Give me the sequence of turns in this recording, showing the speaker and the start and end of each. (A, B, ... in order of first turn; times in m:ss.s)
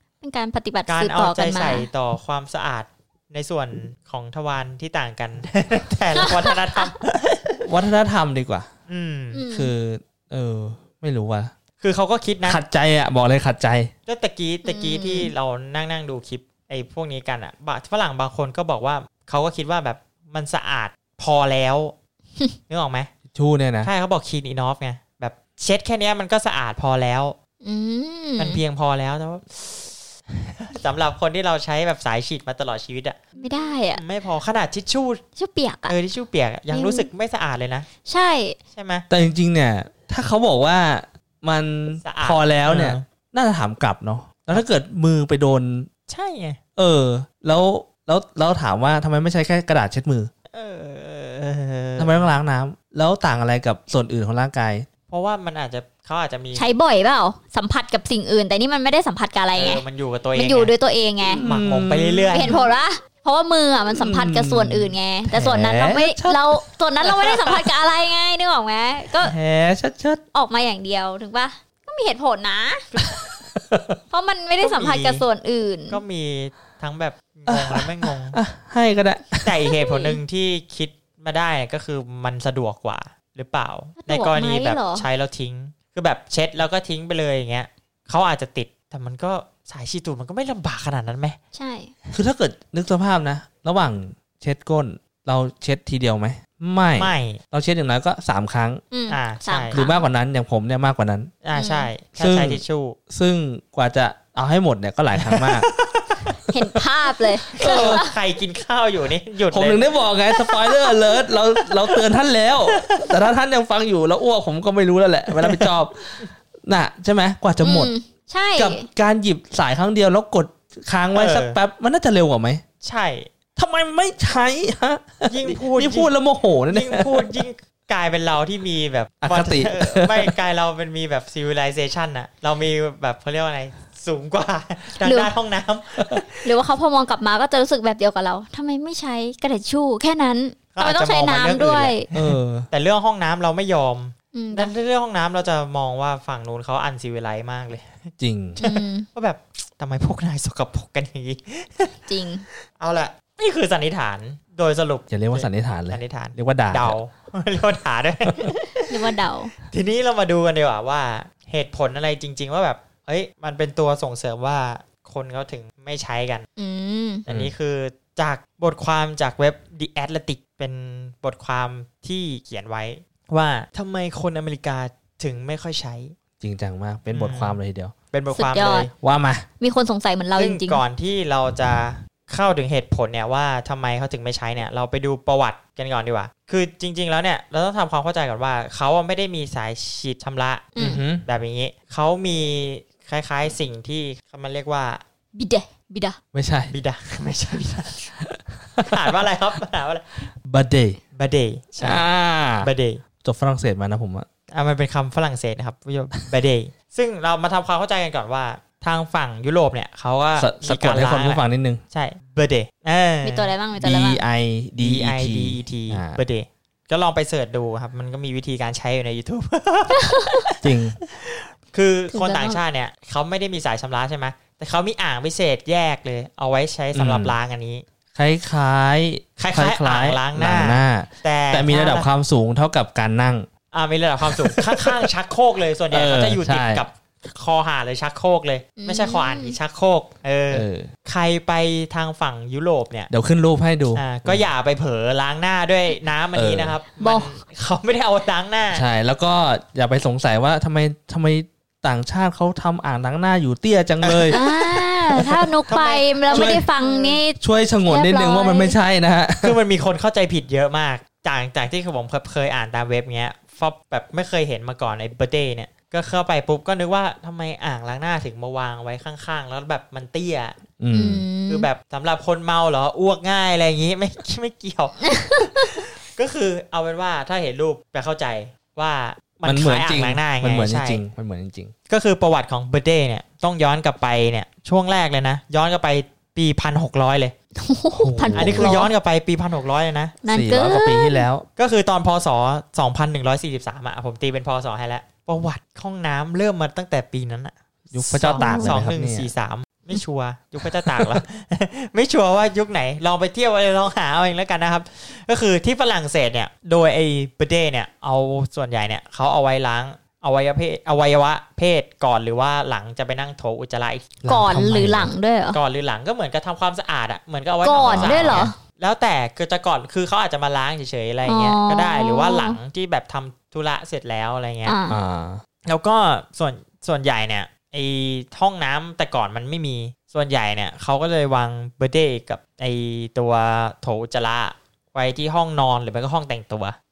0:00.2-0:01.9 A
0:00.9-0:07.7 B
0:06.2-0:06.9 A
0:07.6-0:08.7 C
0:08.9-0:09.4 B
0:09.3-0:09.7 A
0:09.5-0:11.5 C
0:11.8-0:12.6 B
0:12.4-0:13.9 C
0:14.1-0:22.0 B
0:14.6-0:15.3 A
0:22.7-0:23.1 B
0:23.3-0:23.9 C
0:23.8-0:27.4 B
0:27.6-0:28.6 A
0:28.4-0:35.2 B
0:33.4-0:34.0 A
0:35.4-0:36.0 A
0:35.9-0:37.9 B
0:36.7-0:37.1 A
0:38.0-0:38.6 A
0:38.7-0:39.0 B
0:39.1-0:45.9 C
0:42.0-0:43.0 B
0:46.1-0:46.6 B
0:46.8-0:50.3 C
0:50.5-0:52.3 B
0:52.0-0:54.9 C
0:55.1-0:56.7 B
0:56.6-0:59.8 A
0:59.6-1:00.7 B
1:00.4-1:01.4 A
1:01.3-1:02.6 C
1:01.4-1:02.6 B
1:02.3-1:09.4 A
1:03.9-1:06.4 C
1:07.0-1:07.6 B
1:09.3-1:10.2 C
1:10.3-1:12.8 A
1:12.9-1:13.2 B
1:13.0-1:14.0 C
1:14.1-1:16.0 A
1:14.6-1:15.2 B
1:15.9-1:18.4 B
1:17.5-1:19.6 C
1:19.4-1:31.4 B
1:19.8-1:20.2 A
1:24.0-1:25.1 A
1:31.5-1:31.9 A
1:32.1-1:38.8 C
1:37.0-1:37.4 B
1:38.9-1:40.0 A
1:39.1-1:39.8 B
1:39.7-1:41.3 C
1:41.4-1:43.0 B
1:41.6-1:41.9 A
1:42.2-1:45.7 C
1:45.1-1:46.8 B
1:46.5-1:48.2 A
1:47.5-1:49.8 B
1:47.6-1:48.0 C
1:49.5-1:57.9 C
1:52.7-1:53.1 B
1:55.4-1:55.7 B
1:57.6-1:58.9 A
1:58.6-2:02.6 C
2:01.1-2:01.6 B
2:02.8-2:03.3 B
2:03.6-2:07.4 C
2:05.3-2:06.1 B
2:06.7-2:16.5 B
2:09.2-2:10.3 C
2:15.0-2:15.3 A
2:16.4-2:22.1 A
2:20.7-2:32.0 B
2:22.1-2:22.7 C
2:24.3-2:24.7 A
2:28.2-2:28.6 C
2:28.6-2:29.1 A
2:32.1-2:32.5 A
2:32.8-2:39.0 B
2:35.1-2:37.0 C
2:38.8-2:39.5 A
2:39.6-2:46.5 B
2:46.6-2:47.2 A
2:47.3-2:56.2 B
2:56.4-2:57.9 C
2:57.1-2:57.6 B
2:58.1-2:58.9 B
2:58.3-2:58.9 A
2:59.0-2:59.5 C
2:59.6-3:00.8 A
3:00.4-3:15.0 B
3:10.8-3:11.0 A
3:10.8-3:11.2 C
3:15.3-3:16.2 A
3:16.3-3:16.7 C
3:16.7-3:18.1 B
3:18.2-3:18.9 C
3:18.8-3:20.3 B
3:20.4-3:21.0 C
3:21.2-3:22.0 B
3:21.8-3:22.7 C
3:22.6-3:23.0 B
3:23.2-3:24.3 C
3:24.5-3:33.5 B
3:30.4-3:31.8 C
3:33.2-3:34.2 A
3:33.8-3:36.2 C
3:34.8-3:47.8 B
3:40.0-3:40.4 A
3:40.6-3:41.0 C
3:42.1-3:42.6 A
3:46.9-3:47.4 C
3:48.2-3:53.5 C
3:49.4-3:52.1 B
3:53.7-4:03.1 B
3:54.2-3:55.1 C
3:55.9-3:56.8 C
3:58.8-3:59.6 A
4:00.5-4:00.9 C
4:03.1-4:04.4 C
4:04.0-4:08.8 B
4:06.4-4:06.8 C
4:07.0-4:07.4 A
4:08.7-4:15.5 C
4:14.0-4:14.4 B
4:14.3-4:18.8 A
4:15.7-4:17.2 B
4:16.3-4:16.6 C
4:17.4-4:19.6 C
4:19.4-4:30.6 B
4:30.8-4:31.2 C
4:30.9-4:31.7 A
4:31.5-4:41.0 B
4:35.1-4:35.8 A
4:39.4-4:41.7 C
4:41.9-4:47.3 B
4:47.6-4:48.9 A
4:47.9-4:48.8 C
4:48.4-4:50.2 B
4:50.2-4:51.2 A
4:50.3-4:51.5 C
4:51.6-5:14.2 B
4:57.9-4:59.3 C
4:58.4-4:58.8 A
5:00.6-5:01.1 C
5:14.2-5:15.1 C
5:14.3-5:15.6 A
5:15.5-5:24.8 B
5:17.6-5:18.6 A
5:17.8-5:18.5 C
5:21.3-5:22.6 A
5:24.6-5:25.0 A
5:24.9-5:25.4 C
5:25.7-5:36.8 B